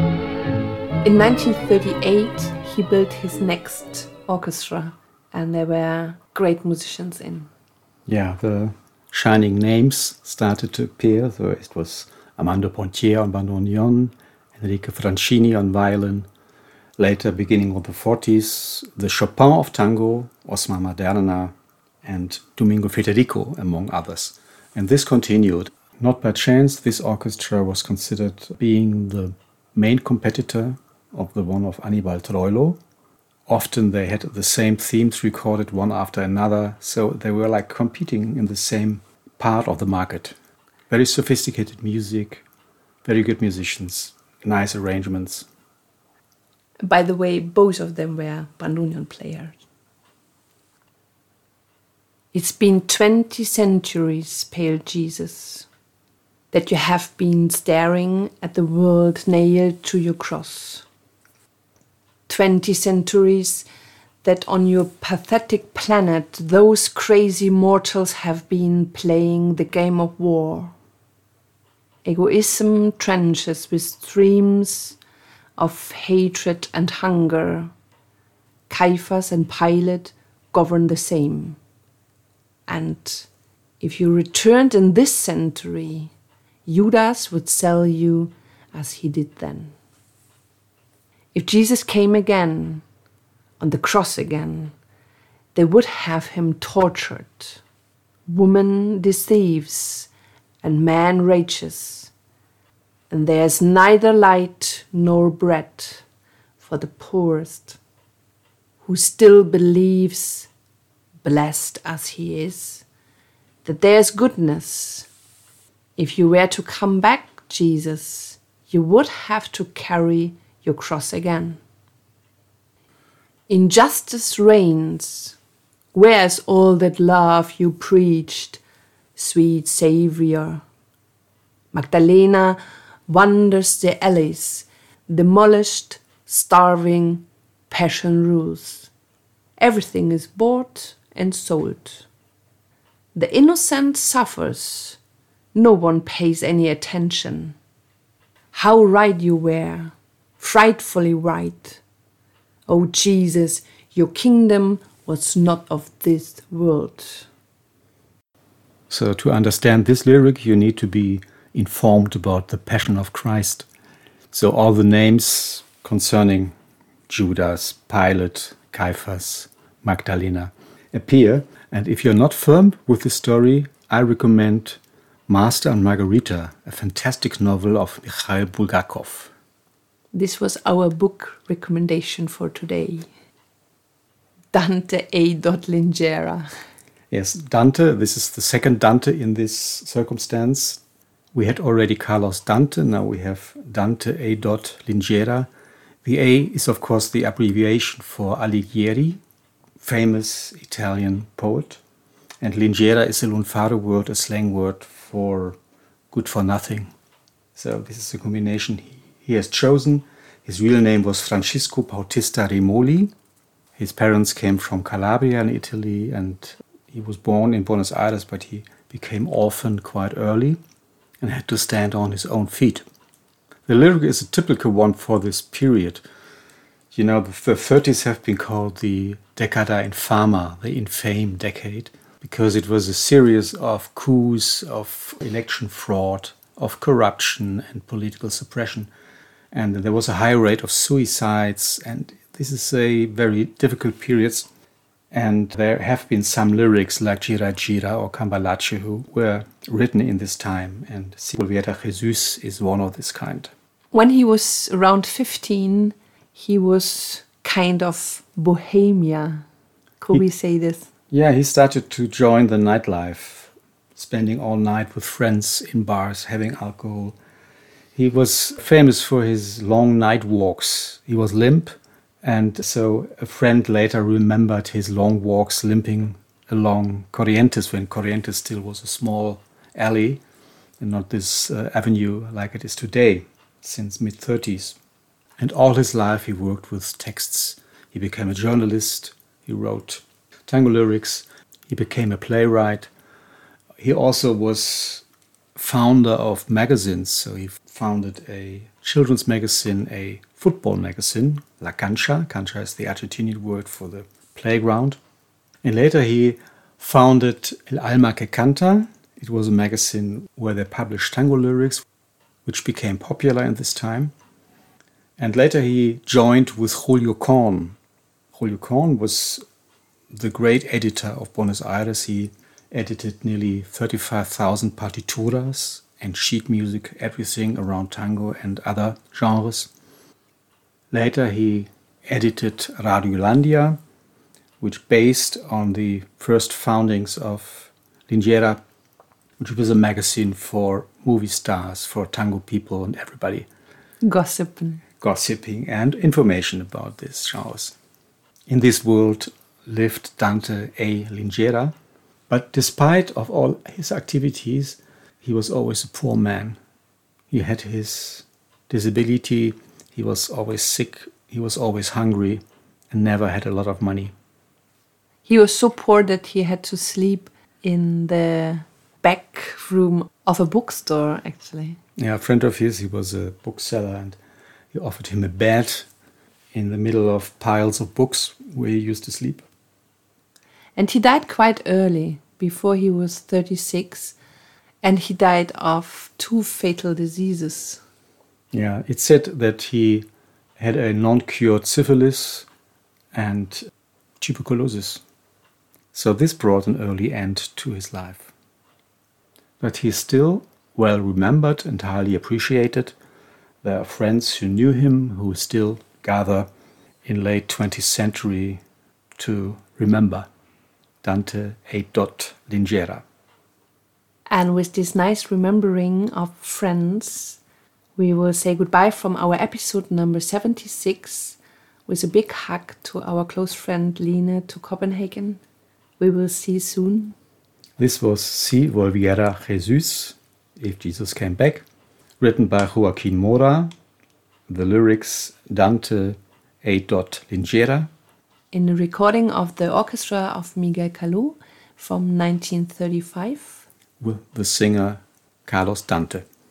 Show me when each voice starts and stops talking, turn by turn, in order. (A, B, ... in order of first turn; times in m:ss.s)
0:01.0-0:07.5 A
0:08.1-0:16.3 B
0:17.0-0:32.8 B
0:33.5-0:40.4 B
0:40.9-0:42.4 B
0:43.0-0:45.5 B
0:46.8-0:49.6 A
0:52.3-0:55.7 A
0:56.5-1:00.9 A
1:02.3-1:03.7 A
1:04.2-1:10.7 A
1:12.0-1:15.0 A
1:15.6-1:17.7 A
1:18.7-1:21.6 A
1:22.7-1:23.3 A
1:23.8-1:26.1 A
1:26.7-1:29.8 A
1:31.3-1:32.8 A
1:33.6-1:34.7 A
1:35.6-1:37.6 A
1:38.3-1:40.1 A
1:40.6-1:42.1 A
1:43.1-1:46.0 A
1:46.6-1:47.8 A
1:48.8-1:50.5 A
1:51.2-1:52.8 A
1:53.6-1:55.1 A
1:56.0-2:01.6 A
2:03.5-2:05.4 A
2:05.9-2:08.6 A
2:09.2-2:10.6 A
2:11.7-2:18.9 A
2:19.6-2:22.1 A
2:23.2-2:25.0 A
2:25.5-2:27.6 A
2:28.5-2:31.8 A
2:32.7-2:37.3 A
2:38.9-2:43.7 B
2:44.3-2:46.5 B
2:47.1-2:59.3 B
3:00.1-3:03.1 A
3:04.5-3:06.5 A
3:07.1-3:10.8 B
3:11.3-3:15.5 B
3:16.0-3:19.2 B
3:19.8-3:21.8 B
3:22.4-3:25.6 B
3:26.1-3:26.9 B
3:27.6-3:33.1 B
3:33.8-3:40.6 B
3:41.2-3:42.8 B
3:43.7-3:46.0 B
3:46.9-3:58.9 B
3:59.5-4:04.5 B
4:05.1-4:13.5 B
4:13.9-4:19.5 A
4:20.0-4:20.9 A
4:21.1-4:27.2 B
4:28.0-4:40.2 B
4:40.8-4:44.8 B
4:45.4-4:52.9 B
4:53.8-4:55.0 B
4:55.6-5:05.0 B
5:05.6-5:11.8 B
5:12.4-5:14.1 B
5:15.2-5:17.8 B
5:18.3-5:19.4 B
5:20.1-5:29.7 B
5:30.9-5:33.8 B
5:34.6-5:38.6 B
5:39.4-5:43.5 B
5:44.0-5:44.8 A
5:45.0-5:47.8 B
5:48.5-5:51.8 B
5:52.3-5:56.6 B
5:57.3-6:04.1 B
6:05.2-6:11.8 A
6:12.0-6:14.2 B
6:14.7-6:15.9 B
6:16.5-6:19.5 B
6:20.8-6:24.2 A
6:24.8-6:27.8 A
6:28.5-6:32.5 B
6:33.1-6:33.7 B
6:34.2-6:35.0 B
6:35.9-6:38.3 B
6:39.6-6:43.0 B
6:43.6-6:46.5 B
6:47.1-6:48.6 B
6:49.2-6:50.3 B
6:51.0-6:53.0 B
6:54.3-6:57.4 A
6:58.0-7:05.4 A
7:06.0-7:07.2 A
7:07.8-7:11.6 B
7:12.2-7:13.7 B
7:14.5-7:17.9 B
7:18.5-7:23.6 A
7:24.0-7:26.2 B